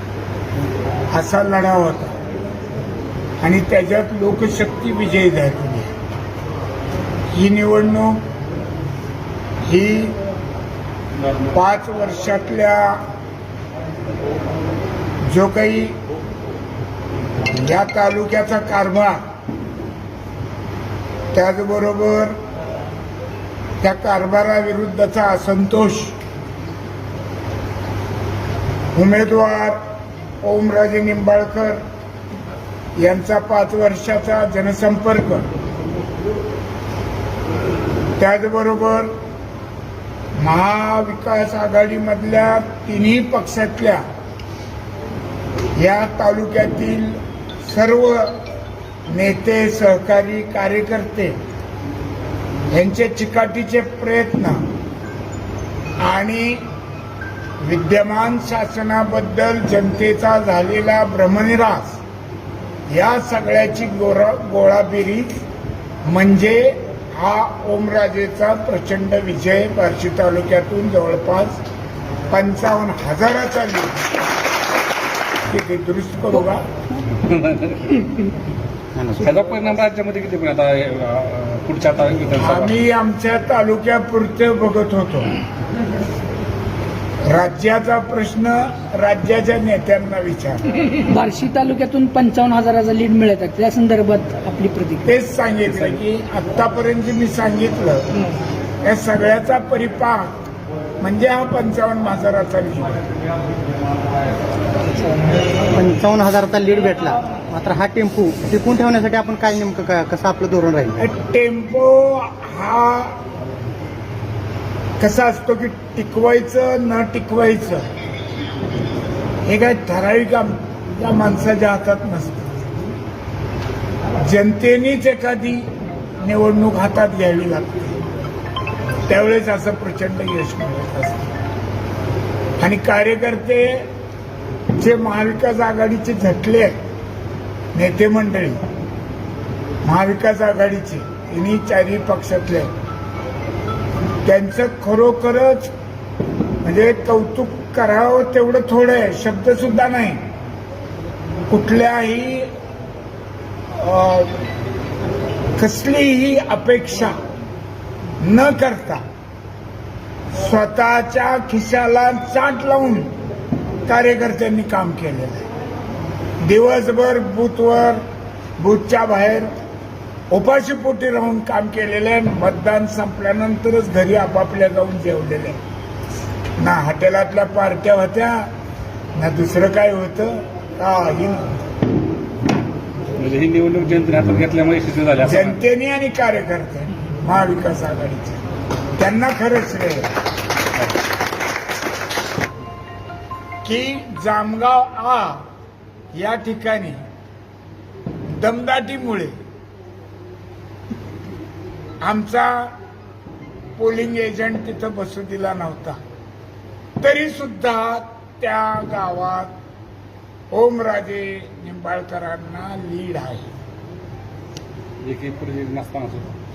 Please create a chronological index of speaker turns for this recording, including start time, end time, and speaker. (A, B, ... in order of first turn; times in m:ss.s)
0:01.1-0:02.2 A
0:03.4-0:05.9 A
0:07.3-0:08.2 A
0:09.6-0:10.2 A
0:11.5-0:13.0 A
0:15.2-0:16.0 A
0:17.5-0:19.2 A
0:21.3-0:22.4 A
0:23.8-0:26.2 A
0:28.9-0:29.8 A
0:30.4-0:31.8 A
0:33.0-0:35.5 A
0:38.2-0:39.1 A
0:40.4-0:44.0 A
0:45.8-0:48.4 A
0:49.1-0:51.4 A
0:52.7-0:54.6 A
0:56.0-0:56.6 A
0:57.6-1:02.0 A
1:02.9-1:05.4 A
1:06.0-1:11.6 A
1:12.3-1:14.0 A
1:15.5-1:16.6 A
1:17.1-1:18.1 B
1:19.0-1:19.4 C
1:19.2-1:22.8 B
1:22.4-1:25.3 A
1:27.3-1:30.6 A
1:30.8-1:35.1 D
1:35.0-1:38.1 A
1:35.7-1:36.0 B
1:38.8-1:40.3 A
1:41.0-1:43.0 A
1:44.9-1:45.3 D
1:45.7-1:51.0 C
1:51.0-1:53.2 A
1:55.0-1:57.9 A
1:59.5-2:02.6 A
2:04.2-2:08.0 A
2:09.1-2:11.3 A
2:12.6-2:13.9 A
2:14.8-2:16.8 A
2:17.7-2:18.6 A
2:19.8-2:22.7 A
2:24.2-2:25.7 A
2:26.6-2:30.2 A
2:31.5-2:32.5 A
2:33.7-2:34.4 A
2:35.6-2:37.2 A
2:38.2-2:39.0 A
2:40.3-2:43.1 A
2:43.9-2:45.5 A
2:46.4-2:48.0 A
2:48.6-2:49.5 A
2:50.3-2:55.6 A
2:56.6-2:58.5 A
2:59.2-3:01.5 A
3:03.2-3:05.6 B
3:05.2-3:08.4 A
3:09.0-3:10.1 A
3:13.6-3:15.4 A
3:16.1-3:17.0 A
3:18.3-3:19.4 A
3:22.0-3:22.8 A
3:23.8-3:26.0 A
3:27.0-3:29.5 A
3:30.5-3:33.5 A
3:35.0-3:36.3 B